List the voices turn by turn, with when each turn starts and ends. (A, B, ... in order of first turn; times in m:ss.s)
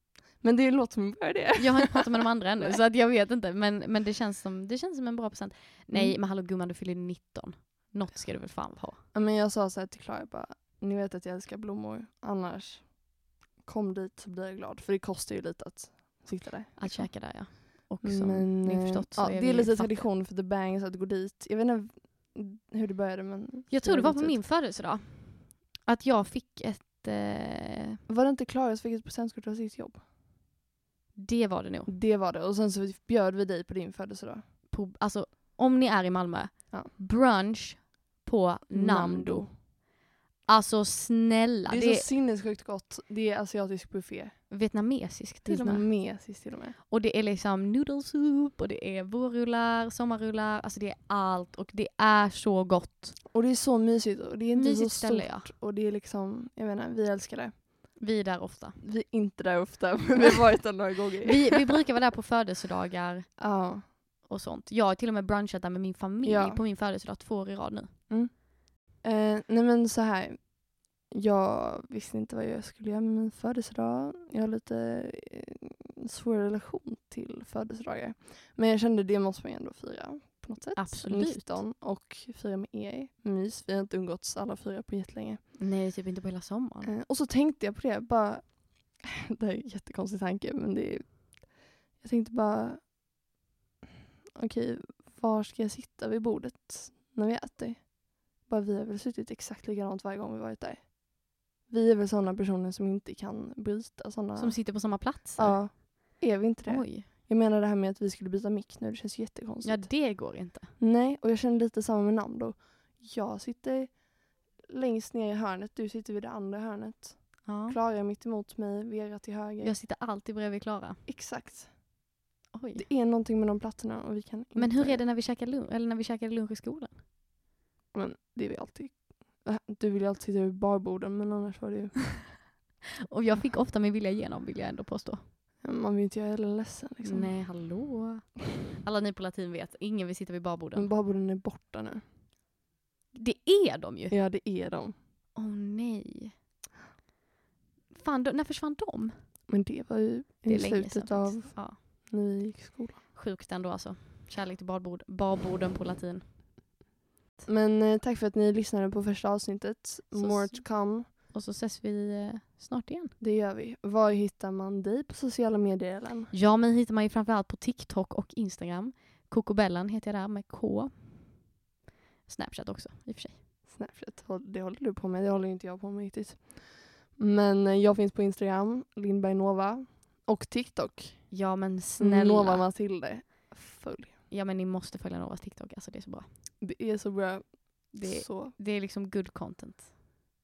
0:00.4-0:02.8 A
0:01.6-0:09.0 B
0:05.9-0:06.2 A
0:09.1-0:24.4 A
0:16.8-0:20.1 B
0:23.7-0:28.0 B
0:28.1-0:30.0 A
0:31.1-0:31.9 B
0:31.9-0:34.4 A
0:34.7-0:39.7 B
0:38.7-0:39.5 A
0:40.4-0:42.1 B
0:41.7-0:44.5 A
0:44.5-0:45.9 B
0:45.4-0:46.8 A
0:46.9-0:53.2 B
0:53.3-0:57.9 A
0:54.5-0:55.5 B
0:58.0-0:58.8 B
0:58.8-1:01.6 A
1:01.2-1:08.1 B
1:03.4-1:03.9 A
1:06.2-1:06.6 A
1:08.1-1:25.5 A
1:20.7-1:21.6 B
1:25.6-1:26.9 B
1:26.8-1:33.1 A
1:34.4-1:59.8 A
1:44.4-1:46.0 B
1:46.6-1:47.1 B
1:49.6-1:50.8 B
1:57.4-1:57.8 B
1:59.6-2:01.0 B
2:01.1-2:01.8 A
2:02.5-2:02.8 B
2:02.8-2:05.0 A
2:04.6-2:07.0 B
2:07.9-2:12.4 A
2:13.1-2:15.3 B
2:15.6-2:17.4 A
2:17.0-2:20.9 B
2:20.7-2:22.0 A
2:23.1-2:24.2 B
2:24.1-2:24.9 A
2:25.3-2:26.4 B
2:27.9-2:29.4 B
2:29.5-2:33.0 A
2:30.4-2:32.1 B
2:33.1-2:36.3 B
2:37.4-2:41.1 A
2:40.1-2:43.2 B
2:43.2-2:46.3 A
2:46.3-2:51.4 B
2:52.3-2:53.4 B
2:53.7-3:01.4 A
3:01.3-3:02.7 B
3:02.0-3:04.2 A
3:04.3-3:06.3 B
3:06.6-3:08.5 A
3:07.9-3:09.9 B